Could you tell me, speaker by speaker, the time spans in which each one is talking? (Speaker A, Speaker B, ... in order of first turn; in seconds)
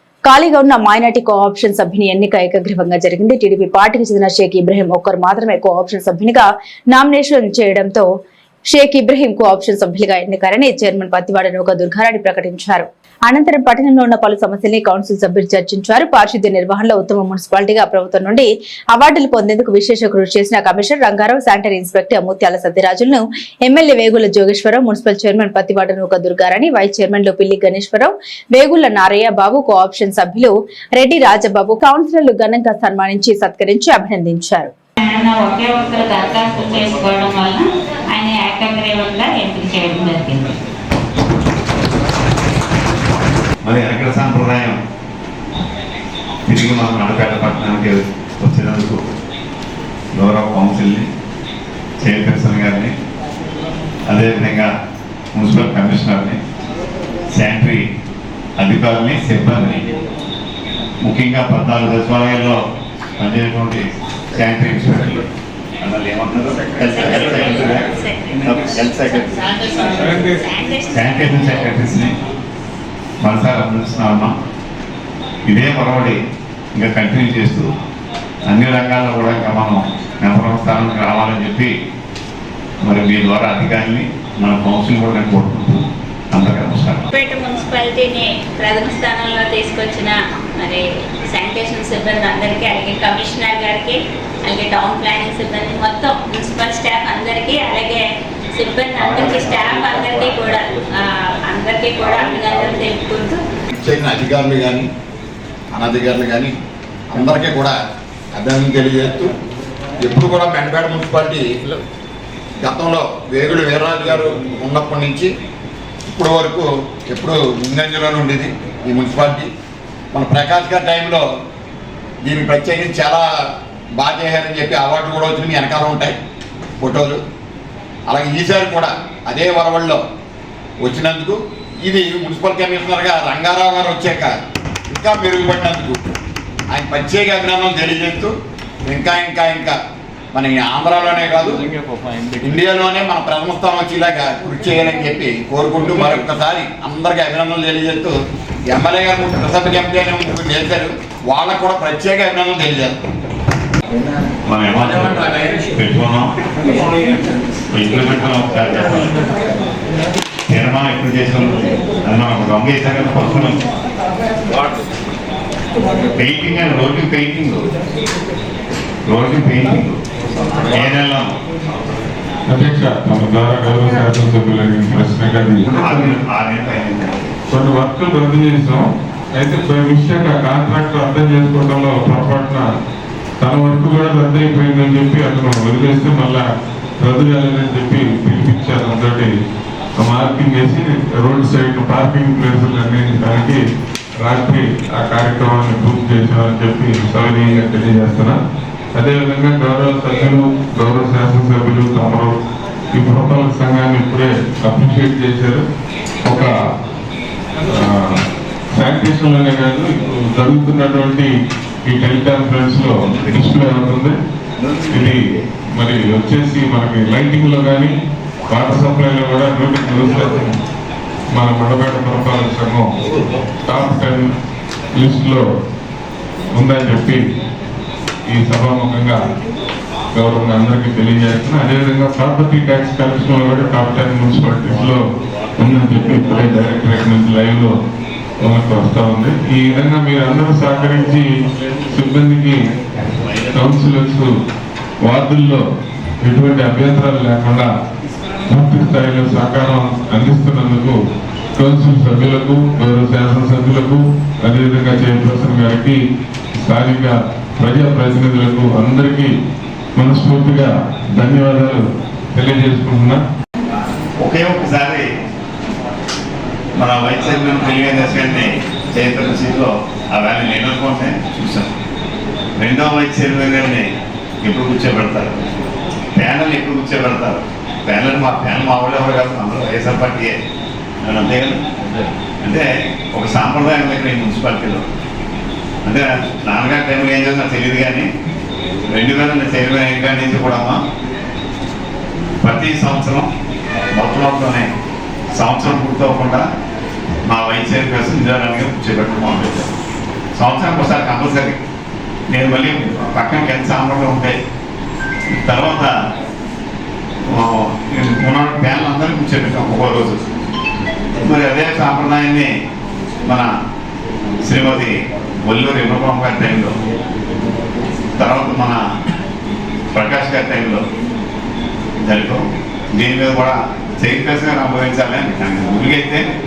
Speaker A: 0.2-8.1, 8.7-34.7
Speaker B: 35.0-40.5, 66.9-68.4, 69.8-70.9, 87.1-98.0, 98.5-103.4
Speaker C: 43.6-44.8, 46.5-49.0, 50.1-51.0, 52.0-52.9, 54.1-54.7, 55.3-56.4, 57.3-57.8, 58.6-59.9, 61.0-62.6, 63.2-65.2, 65.8-67.8, 68.4-69.5, 70.9-72.1, 73.2-74.3, 75.5-76.2, 76.7-77.7, 78.5-81.7, 82.8-87.0, 154.5-156.3, 157.7-159.2, 160.5-163.6, 166.2-167.6, 169.1-170.0, 170.7-171.3, 175.6-177.3, 264.2-265.0, 266.8-271.7, 272.6-273.8, 274.4-275.4, 276.1-280.3, 281.0-281.6, 282.4-284.8, 285.8-288.1, 288.9-290.8, 292.4-293.3, 293.9-294.7, 295.3-296.4, 297.3-299.7, 300.4-301.6, 302.3-304.3, 305.4-305.9, 307.3-310.2, 311.2-312.5, 314.4-316.7, 318.2-318.8, 319.9-320.8, 322.0-326.2
Speaker D: 103.7-104.8, 105.7-106.5, 107.1-107.7, 108.3-109.3, 110.0-111.5, 112.6-115.3, 116.1-119.5, 120.1-121.2, 122.2-123.2, 124.0-126.1, 126.8-127.2, 128.1-130.0, 130.8-134.3, 134.9-136.0, 136.7-138.3, 138.9-139.8, 140.3-141.6, 142.4-148.1, 148.7-153.0
Speaker E: 172.5-176.1, 177.5-178.8, 179.3-182.6, 183.4-186.4, 187.0-189.3, 190.0-193.6, 194.2-198.3, 198.9-202.3, 202.9-205.6, 206.2-206.5, 207.7-208.2, 208.8-211.3, 211.8-214.1, 214.9-215.2, 215.8-217.9, 218.5-220.6, 221.3-222.8, 223.7-224.3, 225.0-225.4, 226.6-227.2, 228.3-229.2, 230.1-235.0, 235.6-237.7, 238.4-241.3, 241.9-242.6, 243.5-244.3, 245.1-245.6, 246.2-247.7, 248.5-250.9, 251.6-256.0, 256.6-259.3, 259.9-261.8, 262.3-263.2